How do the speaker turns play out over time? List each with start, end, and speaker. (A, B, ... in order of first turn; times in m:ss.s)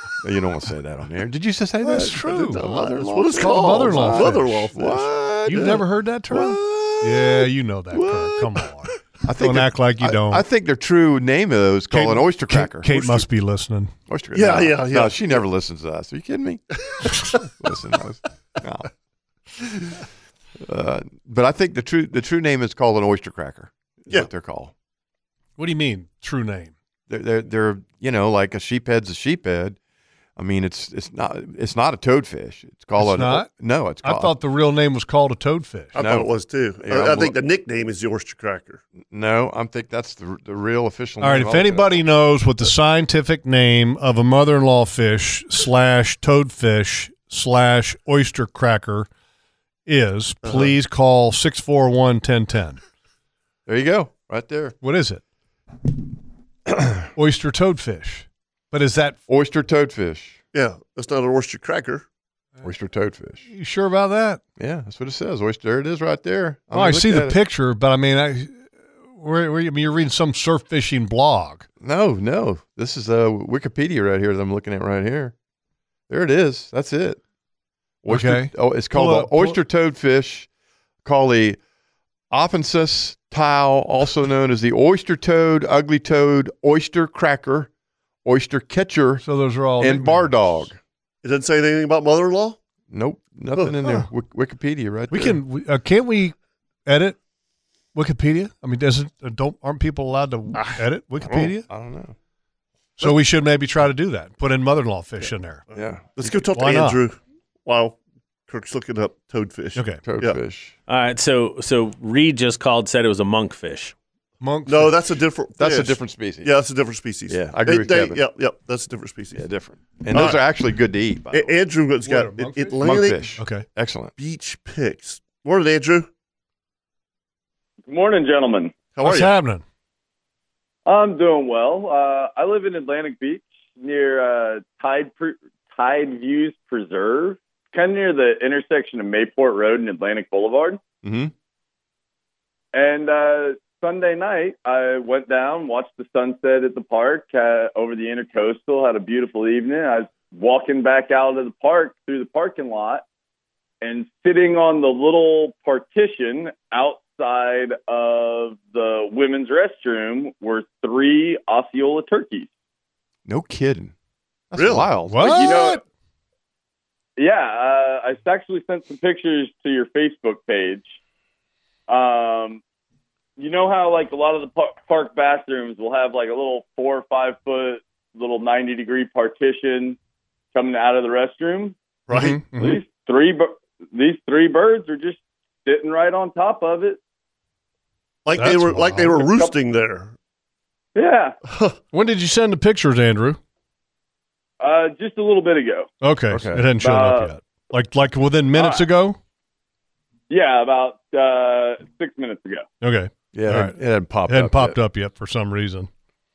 0:00.2-0:08.6 A
0:01.9-0:05.8 B
0:01.9-0:02.6 C
0:03.4-0:04.7 C
0:05.5-0:10.4 C
0:09.2-0:13.2 A
0:11.9-0:13.9 C
0:14.1-0:18.9 A
0:14.4-0:15.4 B
0:20.6-0:24.7 A
0:25.6-0:26.7 C
0:27.1-0:29.8 A
0:30.4-0:34.3 A
0:33.0-0:33.5 C
0:34.0-0:36.0 C
0:36.0-0:38.8 B
0:36.0-0:36.3 A
0:36.8-0:37.4 A
0:39.1-0:41.9 A
0:41.2-0:49.1 C
0:49.9-0:52.8 C
0:50.4-0:50.7 B
0:53.7-0:54.8 A
0:54.8-0:55.2 C
0:57.2-0:59.2 C
0:59.3-1:00.4 A
1:00.5-1:02.0 B
1:02.6-1:03.4 A
1:03.5-1:04.4 C
1:04.6-1:07.4 A
1:06.7-1:11.7 C
1:11.8-1:15.3 A
1:16.1-1:17.2 A
1:18.0-1:20.5 A
1:18.1-1:19.6 C
1:21.0-1:21.6 A
1:22.3-1:27.7 A
1:28.2-1:29.3 A
1:29.2-1:30.7 C
1:29.8-1:30.8 A
1:31.2-1:32.6 B
1:32.9-1:35.4 A
1:33.6-1:34.0 B
1:35.1-1:36.4 C
1:36.9-1:37.2 C
1:37.9-1:41.7 C
1:40.5-1:40.8 B
1:41.3-1:42.2 A
1:43.0-1:45.6 C
1:45.7-1:46.2 A
1:45.8-1:48.0 B
1:46.5-1:47.0 C
1:48.5-1:50.4 B
1:49.8-1:50.0 C
1:50.0-1:50.7 A
1:50.9-1:53.9 D
1:54.4-1:55.0 C
1:54.7-1:59.4 B
1:55.6-1:56.5 A
1:57.3-1:58.2 A
1:59.4-2:01.5 A
2:00.1-2:00.4 B
2:01.3-2:03.2 B
2:02.0-2:02.8 C
2:02.8-2:04.1 A
2:03.4-2:03.7 C
2:04.2-2:06.1 B
2:07.9-2:08.7 E
2:09.0-2:09.3 B
2:09.0-2:09.6 C
2:10.9-2:20.8 E
2:21.0-2:21.3 A
2:22.7-2:33.0 E
2:33.8-2:42.5 E
2:43.3-2:43.9 A
2:44.5-2:45.3 A
2:44.6-2:44.9 B
2:45.1-2:45.8 C
2:45.2-2:45.8 E
2:47.2-2:51.0 E
2:51.9-2:52.6 E
2:53.4-3:00.0 E
3:00.5-3:01.8 E
3:02.1-3:02.4 B
3:02.1-3:02.8 C
3:02.5-3:07.0 E
3:08.2-3:10.1 B
3:08.4-3:09.2 C
3:09.2-3:09.5 E
3:11.0-3:11.4 E
3:11.5-3:11.8 B
3:11.9-3:13.4 C
3:14.6-3:15.9 E
3:16.0-3:19.2 C
3:16.3-3:16.7 A
3:16.8-3:17.3 E
3:18.5-3:18.9 E
3:20.3-3:22.7 E
3:22.8-3:25.9 C
3:23.3-3:24.8 A